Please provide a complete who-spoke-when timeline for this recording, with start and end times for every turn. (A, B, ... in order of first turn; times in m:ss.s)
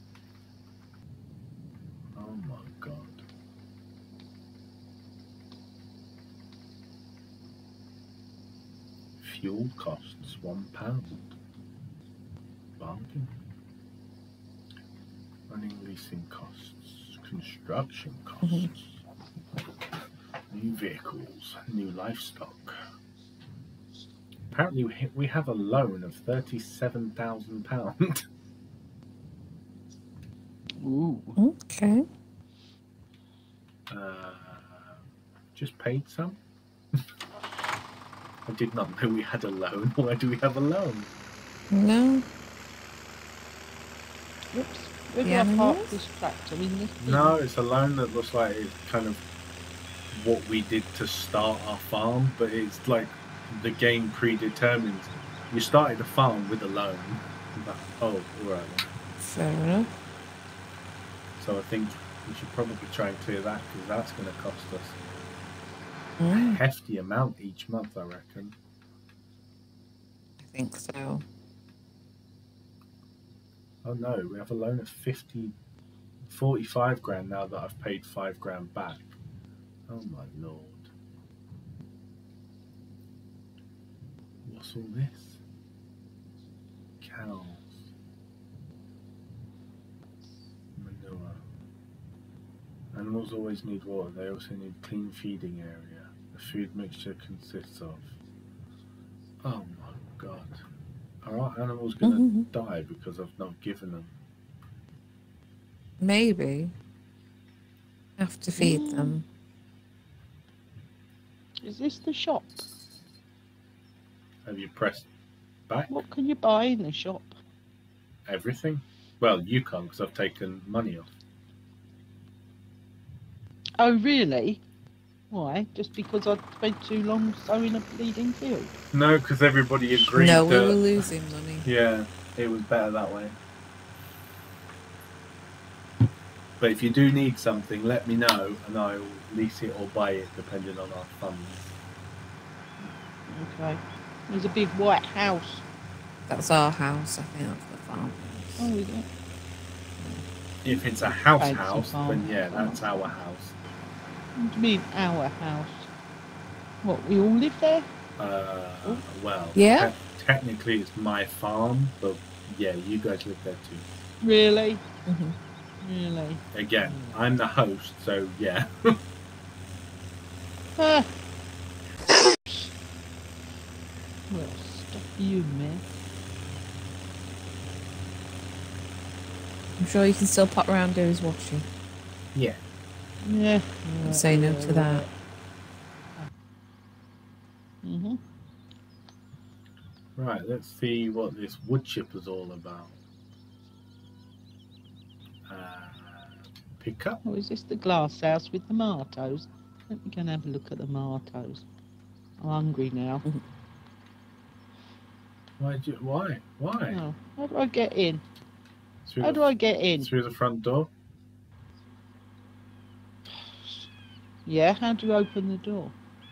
0:02.1-0:03.2 A
0:09.2-0:11.3 A
0:12.8-0:13.3 A
0:15.5-0:19.0 A
0:18.4-0:18.7 B
0:20.5-0:22.8 A
0:24.5-0:28.2 A
0:30.8-0:31.4 C
0:31.4-0:32.0 B
0:33.9-0:35.0 A
0:35.5-0:36.4 A
0:38.5-0:41.1 A
0:41.7-0:42.2 B
0:44.5-0:47.4 C
0:45.2-0:46.0 B
0:47.0-0:49.2 A
0:50.1-0:58.9 A
0:59.2-0:59.9 B
1:01.4-1:05.0 A
1:06.2-1:06.6 B
1:06.3-1:08.5 A
1:10.4-1:11.2 B
1:13.8-1:15.5 A
1:16.3-1:19.1 A
1:19.9-1:20.9 A
1:24.4-1:25.4 A
1:27.0-1:27.8 A
1:30.8-1:31.4 A
1:32.9-1:38.1 A
1:39.4-1:40.6 A
1:41.2-1:44.1 A
1:42.0-1:42.5 B
1:46.0-1:46.7 B
1:48.2-1:49.2 B
1:48.6-1:49.2 C
1:51.6-1:52.6 C
1:54.4-1:55.1 A
1:55.7-1:56.0 A
1:55.9-1:57.3 C
1:58.2-2:01.1 A
2:03.8-2:04.6 C
2:05.3-2:08.7 C
2:08.9-2:11.1 A
2:10.0-2:11.7 B
2:11.6-2:13.3 A
2:16.6-2:21.6 A
2:22.8-2:25.6 C
2:26.3-2:28.7 B
2:28.6-2:29.1 C
2:30.6-2:33.5 A
2:30.6-2:33.0 C
2:34.4-2:35.9 C
2:36.8-2:37.9 C
2:38.2-2:43.8 A
2:39.6-2:39.9 B
2:44.2-2:44.8 C
2:45.1-2:45.4 B
2:45.8-2:47.1 C
2:46.5-2:49.0 A
2:50.8-2:51.1 C
2:52.3-2:52.7 C
2:54.3-2:55.8 C
2:59.8-3:01.7 B
3:02.3-3:02.6 A
3:03.2-3:05.1 C
3:04.0-3:05.0 B
3:07.8-3:08.2 C
3:10.2-3:13.0 A
3:15.5-3:17.2 A
3:17.2-3:21.6 C
3:22.4-3:23.2 C
3:25.6-3:27.0 A
3:26.9-3:28.2 C
3:29.0-3:30.9 A
3:29.2-3:30.1 C
3:33.3-3:33.8 C
3:34.4-3:35.9 C